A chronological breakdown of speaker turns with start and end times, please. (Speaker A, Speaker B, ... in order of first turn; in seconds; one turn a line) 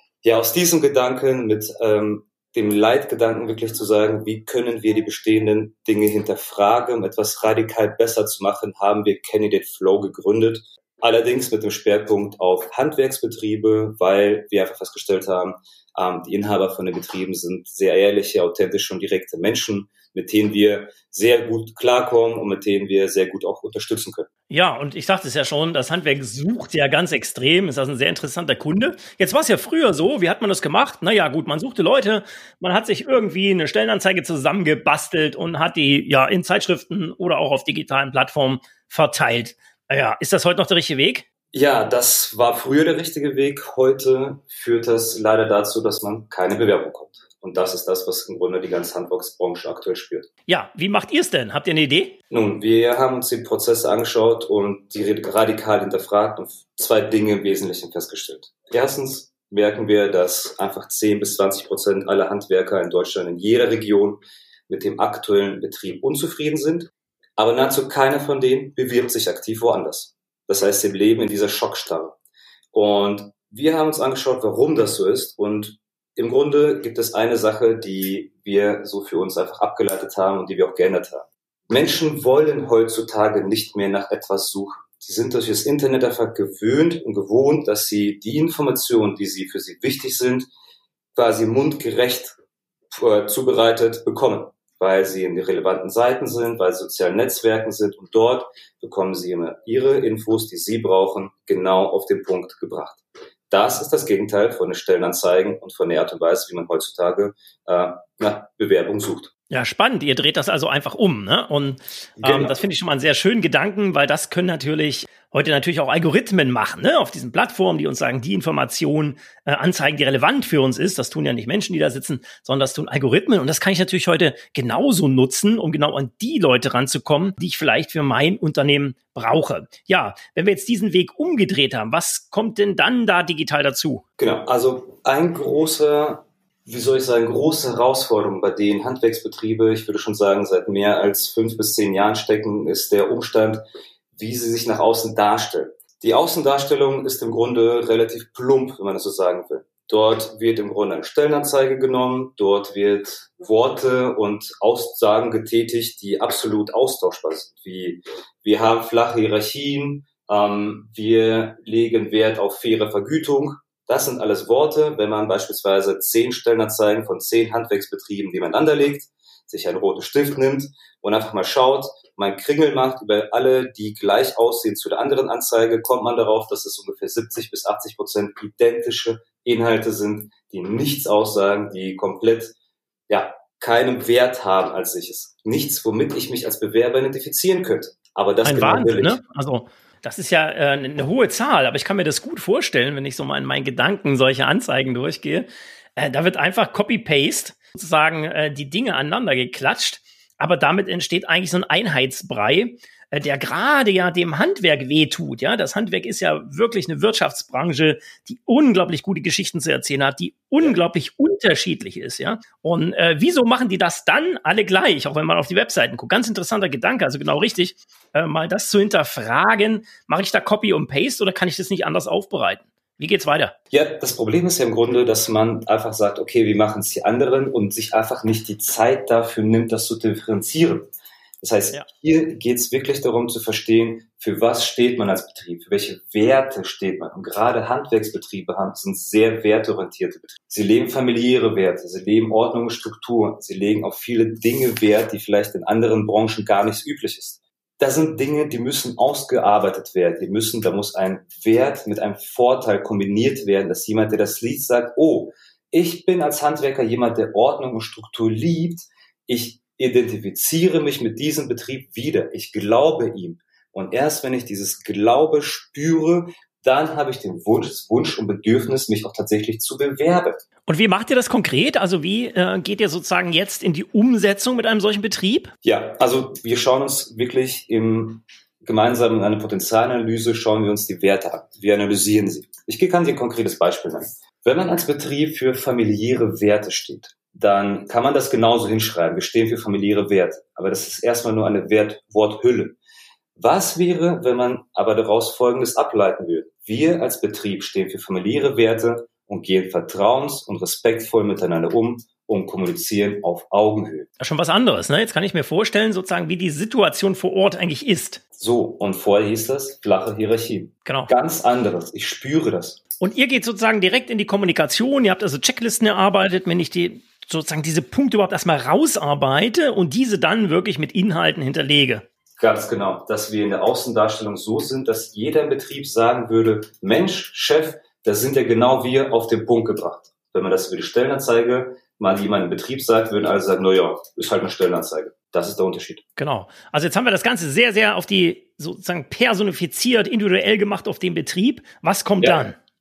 Speaker A: 0.2-24.3
Speaker B: 24.5-41.2
Speaker A: 41.5-50.3
Speaker B: 50.5-52.2
Speaker A: 52.3-72.2
Speaker A: 72.7-90.5
Speaker A: 91.2-92.4
Speaker A: 92.9-109.3
Speaker B: 109.5-134.0
Speaker A: 112.2-112.5
Speaker A: 134.2-143.6
Speaker A: 144.1-182.5
Speaker A: 183.1-189.2
Speaker B: 188.4-223.6
Speaker A: 223.7-270.4
Speaker B: 270.7-275.5
Speaker A: 275.6-292.8
Speaker A: 293.4-304.1
Speaker B: 304.2-308.2
Speaker A: 308.4-312.8
Speaker B: 310.9-311.1
Speaker B: 313.0-322.0
Speaker A: 322.4-336.0
Speaker B: 336.2-342.6